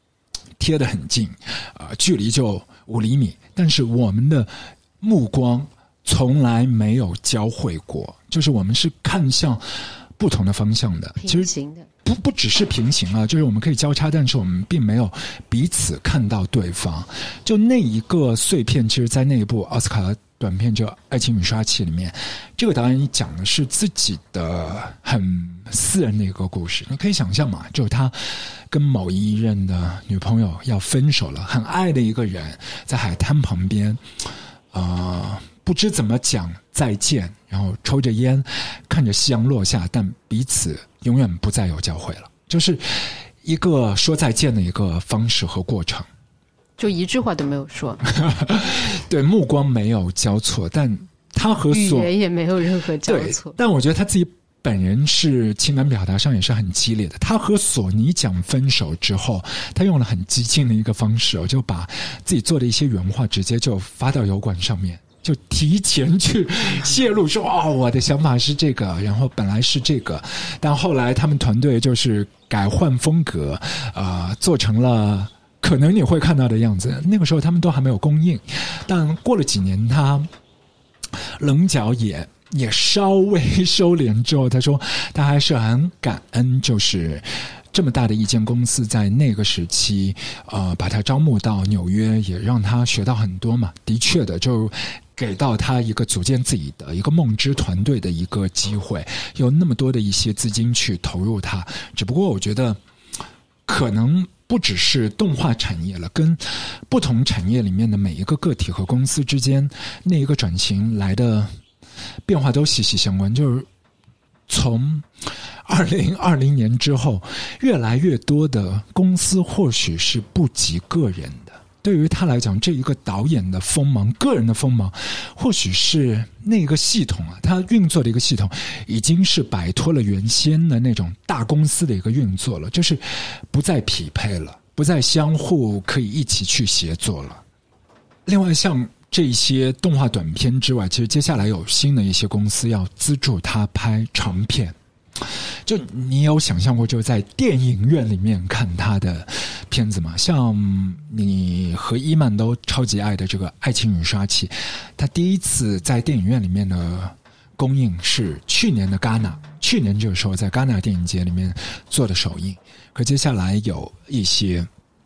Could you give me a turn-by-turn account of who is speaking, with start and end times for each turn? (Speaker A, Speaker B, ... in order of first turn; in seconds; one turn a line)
Speaker A: 0.6-11.5
Speaker B: 11.2-11.9
Speaker A: 12.0-34.0
Speaker A: 34.7-46.1
Speaker B: 46.8-48.0
Speaker A: 48.1-52.1
Speaker B: 51.7-53.6
Speaker A: 53.0-80.3
Speaker A: 81.4-102.8
Speaker A: 103.7-111.5
Speaker A: 112.3-113.7
Speaker A: 114.5-115.1
Speaker A: 115.7-137.4
Speaker A: 138.3-164.7